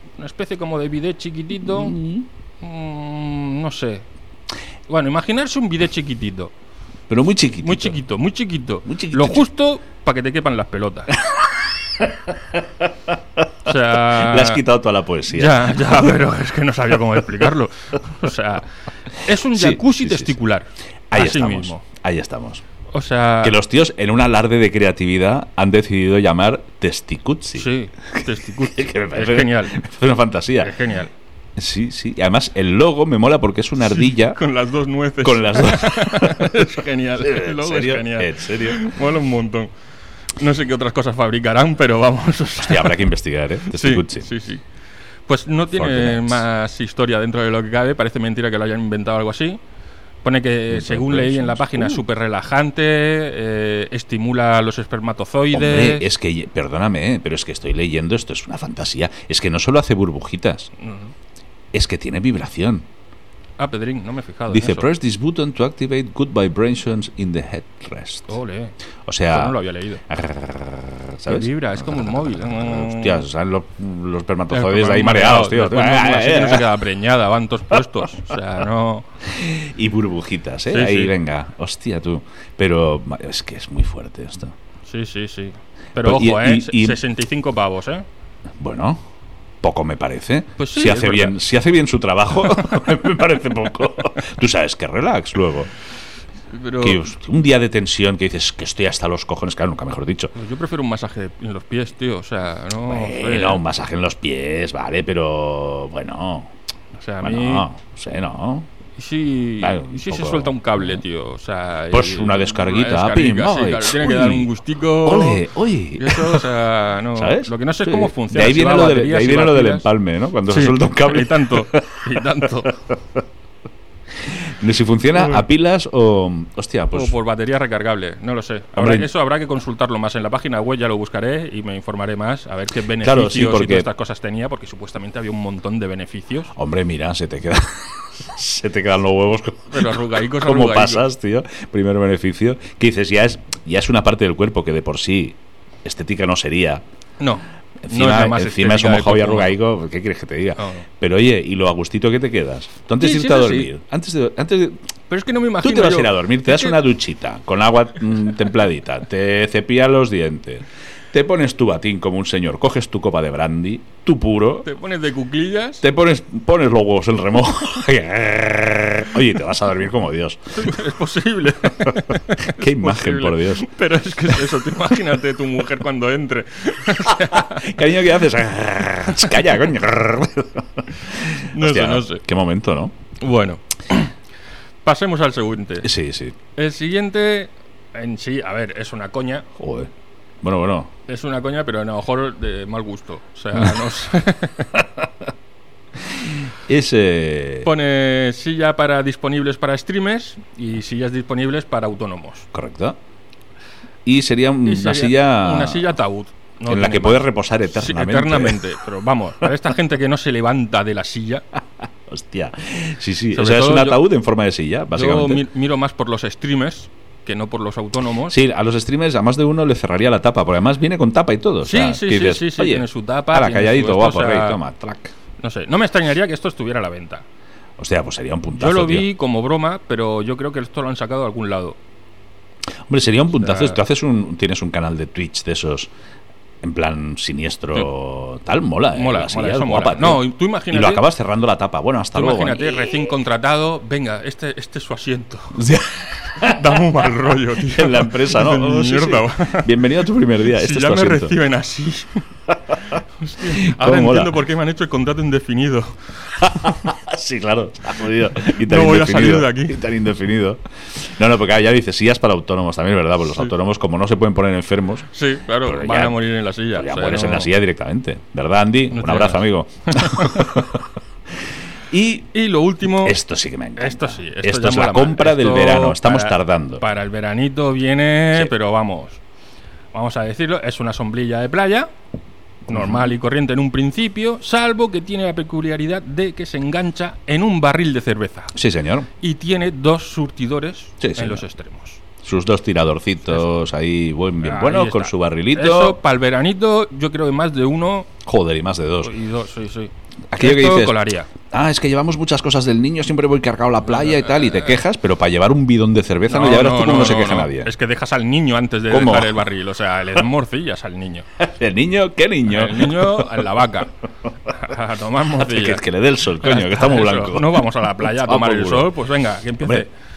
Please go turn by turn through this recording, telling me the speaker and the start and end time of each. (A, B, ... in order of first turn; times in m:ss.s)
0:00.2-0:02.0 A
0:01.6-0:02.2 B
0:02.6-0:04.0 A
0:04.9-0:06.5 A
0:07.1-0:08.0 B
0:07.6-0:11.2 A
0:08.9-0:09.5 B
0:11.2-0:16.1 B
0:13.6-0:14.6 A
0:15.3-0:21.8 A
0:19.5-0:20.4 B
0:21.1-0:22.6 B
0:22.9-0:23.6 A
0:23.4-0:30.8 B
0:27.6-0:29.8 A
0:30.6-0:31.1 A
0:31.6-0:34.4 B
0:33.8-0:39.7 A
0:35.2-0:38.9 B
0:40.4-0:43.0 A
0:42.6-0:44.3 B
0:43.6-0:44.6 A
0:45.3-0:49.6 A
0:45.8-0:46.4 B
0:50.2-0:56.1 A
0:50.7-0:52.0 B
0:55.5-1:00.7 B
1:00.8-1:01.1 A
1:01.7-1:02.8 B
1:03.6-1:04.9 A
1:04.5-1:08.4 B
1:08.3-1:08.7 A
1:09.0-1:16.8 B
1:09.3-1:10.0 A
1:11.3-1:13.2 A
1:14.5-1:19.1 A
1:19.2-1:24.5 B
1:20.7-1:21.1 A
1:24.8-1:28.0 A
1:26.0-1:27.0 B
1:28.6-1:29.0 B
1:29.6-1:35.7 B
1:30.6-1:31.4 A
1:36.5-1:37.0 A
1:36.8-1:40.3 B
1:40.3-1:43.6 A
1:42.8-1:46.5 B
1:47.0-1:47.7 A
1:47.2-1:48.7 B
1:49.0-1:55.4 A
1:49.6-1:50.5 B
1:51.9-1:54.5 B
1:55.0-1:56.5 B
1:56.0-1:59.9 A
1:57.1-2:03.2 B
2:00.5-2:02.8 A
2:04.2-2:07.2 B
2:05.1-2:05.4 A
2:06.9-2:16.5 A
2:08.7-2:09.1 B
2:13.0-2:13.9 B
2:16.5-2:26.8 B
2:19.7-2:21.0 A
2:27.2-2:29.6 A
2:27.8-2:34.8 B
2:30.6-2:30.8 A
2:33.0-2:33.7 A
2:35.1-2:36.8 A
2:35.6-2:44.7 B
2:44.6-2:45.8 A
2:45.8-2:50.7 B
2:50.5-2:57.7 A
2:51.9-2:53.7 B
2:57.0-3:02.9 B
3:01.5-3:02.2 A
3:03.2-3:04.1 A
3:04.8-3:05.9 A
3:05.8-3:06.4 B
3:06.5-3:09.5 A
3:09.6-3:09.9 B
3:10.4-3:10.9 B
3:11.1-3:14.8 A
3:16.2-3:17.7 B
3:17.6-3:22.5 A
3:22.5-3:23.0 B
3:24.0-3:25.9 B
3:24.6-3:31.4 A
3:26.7-3:28.6 B
3:32.1-3:35.4 B
3:33.3-3:34.0 A
3:34.9-3:38.4 A
3:38.3-3:45.1 B
3:41.6-3:44.6 A
3:45.4-3:47.2 A
3:47.8-3:49.1 B
3:48.6-3:51.8 A
3:52.9-3:55.9 B
3:53.4-3:53.8 A
3:56.6-4:03.0 B
3:58.9-4:01.0 A
4:02.1-4:05.7 A
4:05.5-4:11.4 B
4:06.4-4:09.7 A
4:10.5-4:12.2 A
4:13.0-4:16.8 A
4:13.4-4:14.3 B
4:16.4-4:25.1 B
4:18.5-4:19.8 A
4:25.1-4:27.5 A
4:25.6-4:30.8 B
4:28.9-4:30.6 A
4:31.9-4:32.3 B
4:32.3-4:33.2 A
4:32.9-4:36.8 B
4:33.8-4:39.2 A
4:39.9-4:41.9 A
4:42.7-4:48.5 A
4:42.7-4:43.1 B
4:48.5-4:49.1 B
4:49.2-4:52.0 A
4:51.0-4:51.4 B
4:52.2-4:56.0 B
4:54.4-4:58.1 A
4:58.2-4:59.1 B
4:59.0-5:01.3 A
5:00.3-5:07.7 B
5:03.8-5:04.8 A
5:06.3-5:11.3 A
5:08.9-5:09.4 B
5:11.4-5:13.5 B
5:12.5-5:13.9 A
5:14.5-5:15.8 A
5:15.3-5:18.9 B
5:16.4-5:19.9 A
5:19.6-5:19.8 B